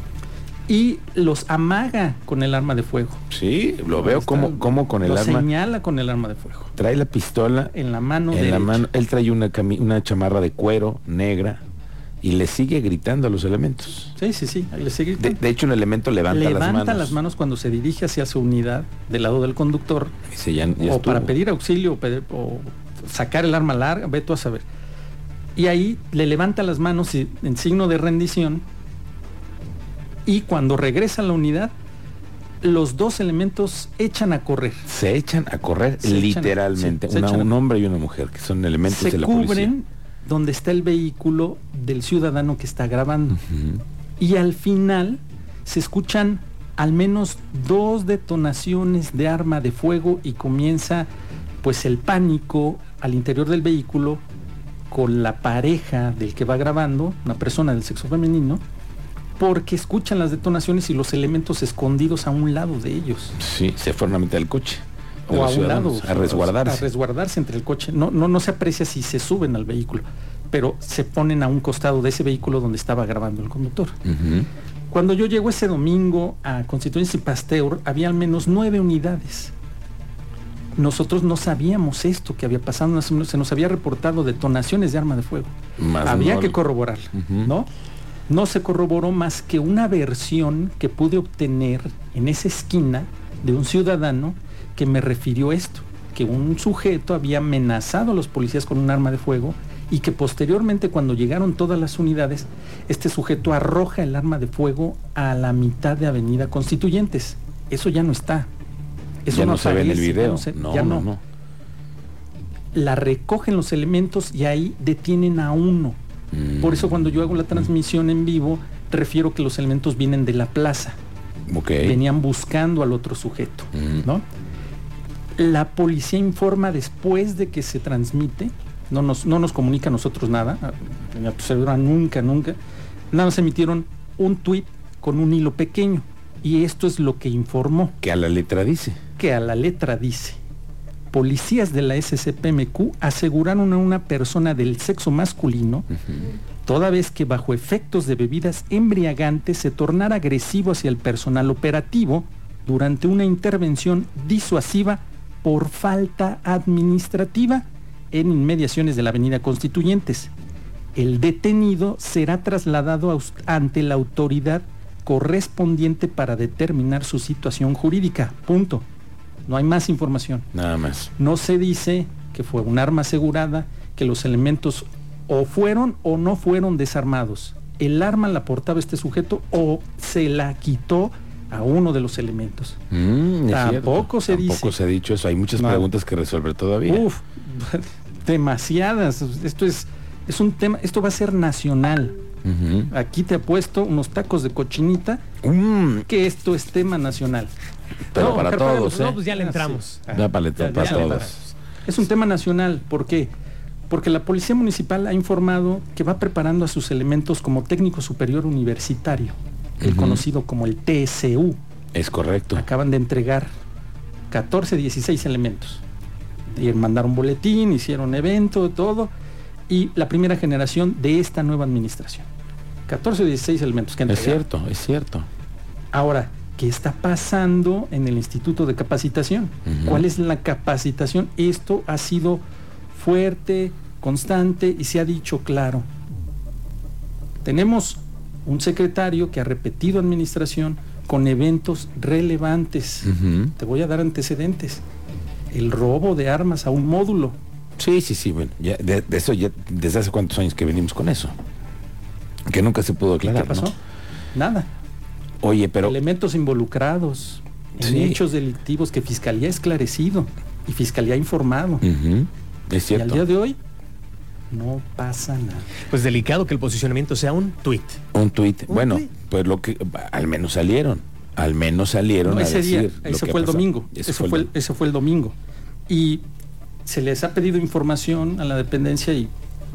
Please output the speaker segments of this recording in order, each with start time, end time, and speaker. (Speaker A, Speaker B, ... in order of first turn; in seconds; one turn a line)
Speaker A: 0.7-3.2
Speaker B: 3.3-5.5
Speaker A: 3.9-6.7
Speaker B: 6.8-7.7
Speaker A: 7.7-8.8
Speaker B: 8.3-11.6
Speaker B: 12.2-14.1
Speaker A: 14.2-15.4
Speaker B: 15.2-17.2
Speaker A: 16.3-20.1
Speaker B: 20.3-21.3
Speaker A: 20.8-24.6
Speaker A: 25.6-28.6
Speaker A: 30.2-31.7
Speaker A: 32.6-34.8
Speaker B: 34.9-39.7
Speaker A: 36.0-37.5
Speaker A: 38.9-43.4
Speaker B: 43.5-43.8
Speaker A: 44.2-51.1
Speaker A: 51.6-54.2
Speaker A: 54.9-58.6
Speaker A: 59.4-63.4
Speaker B: 63.4-66.8
Speaker A: 65.3-74.0
Speaker B: 74.0-74.5
Speaker A: 74.9-79.5
Speaker A: 80.8-85.5
Speaker B: 85.8-86.6
Speaker A: 86.0-87.7
Speaker B: 87.1-87.5
Speaker A: 88.3-108.5
Speaker A: 109.2-111.1
Speaker B: 109.3-111.2
Speaker A: 112.7-116.0
Speaker B: 116.3-117.6
Speaker A: 116.6-121.0
Speaker B: 121.5-122.0
Speaker A: 121.8-124.2
Speaker B: 123.7-124.0
Speaker A: 125.4-132.6
Speaker A: 133.1-137.9
Speaker B: 138.0-139.0
Speaker A: 139.2-140.4
Speaker A: 141.1-145.9
Speaker A: 146.6-160.3
Speaker A: 160.9-168.8
Speaker A: 169.5-170.4
Speaker B: 170.5-171.1
Speaker A: 171.2-182.8
Speaker B: 182.9-187.1
Speaker A: 183.5-184.8
Speaker A: 185.6-185.9
Speaker A: 186.8-192.2
Speaker B: 192.4-192.9
Speaker A: 192.9-195.2
Speaker B: 195.4-196.1
Speaker A: 196.1-197.5
Speaker B: 198.1-199.2
Speaker A: 198.1-199.8
Speaker C: 198.1-201.3
Speaker B: 200.1-201.4
Speaker A: 200.7-201.1
Speaker A: 201.8-203.3
Speaker A: 203.9-211.6
Speaker B: 209.8-210.2
Speaker B: 211.9-212.6
Speaker A: 212.5-213.5
Speaker A: 214.3-215.8
Speaker A: 216.5-219.1
Speaker A: 219.7-222.2
Speaker A: 222.9-224.4
Speaker B: 224.1-225.3
Speaker A: 225.9-235.8
Speaker B: 229.7-230.0
Speaker A: 237.4-244.8
Speaker B: 243.0-243.5
Speaker A: 245.5-247.3
Speaker B: 247.8-251.3
Speaker B: 252.5-253.7
Speaker A: 253.2-253.8
Speaker A: 254.3-254.7
Speaker B: 255.4-256.0
Speaker A: 255.8-261.9
Speaker B: 257.8-258.2
Speaker B: 261.8-263.3
Speaker A: 262.9-263.6
Speaker A: 264.5-265.8
Speaker C: 265.9-268.0
Speaker B: 268.1-274.5
Speaker C: 268.7-269.0
Speaker A: 272.2-275.3
Speaker A: 275.9-276.2
Speaker A: 276.9-279.3